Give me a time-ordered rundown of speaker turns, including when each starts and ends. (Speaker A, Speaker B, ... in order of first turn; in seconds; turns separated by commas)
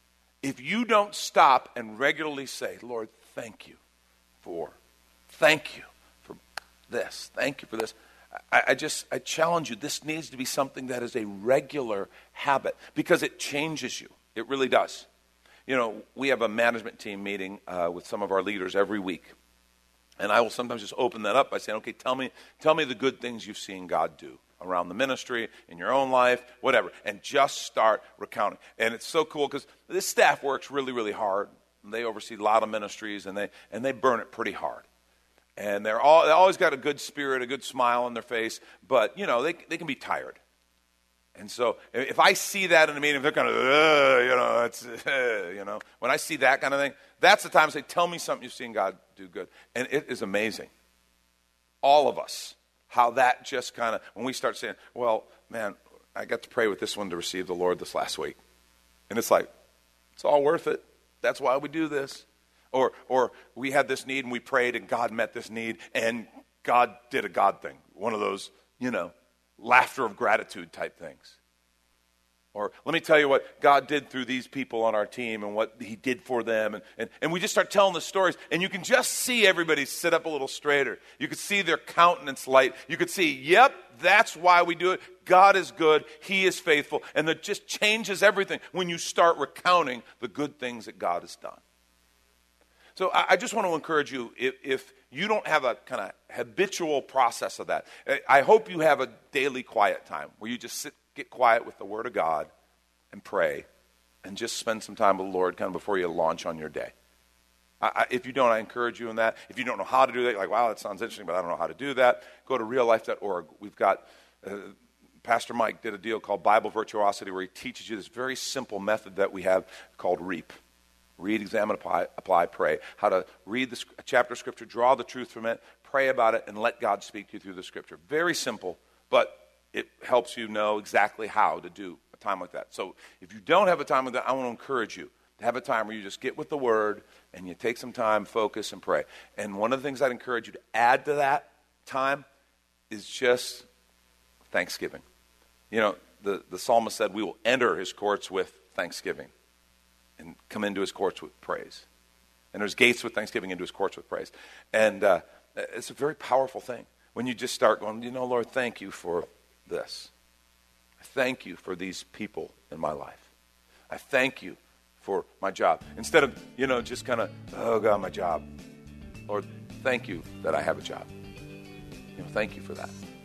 Speaker A: 0.4-3.8, Speaker A: 4.4-4.7, Speaker A: 5.3-8.0, Speaker A: 8.5-15.1, Speaker A: 15.7-19.3, Speaker A: 20.2-34.9, Speaker A: 35.6-40.4, Speaker A: 41.4-50.7, Speaker A: 51.8-58.4, Speaker A: 59.1-59.5, Speaker A: 60.2-71.4, Speaker A: 72.5-91.6, Speaker A: 93.0-102.5, Speaker A: 103.1-103.7, Speaker A: 104.2-106.9, Speaker A: 107.8-114.7, Speaker A: 115.2-120.6, Speaker A: 121.2-142.2, Speaker A: 142.9-143.7, Speaker A: 144.5-145.0, Speaker A: 145.7-149.3, Speaker A: 150.2-151.9, Speaker A: 152.5-160.1, Speaker A: 161.0-163.3, Speaker A: 163.9-168.4, Speaker A: 169.3-171.1, Speaker A: 172.2-172.9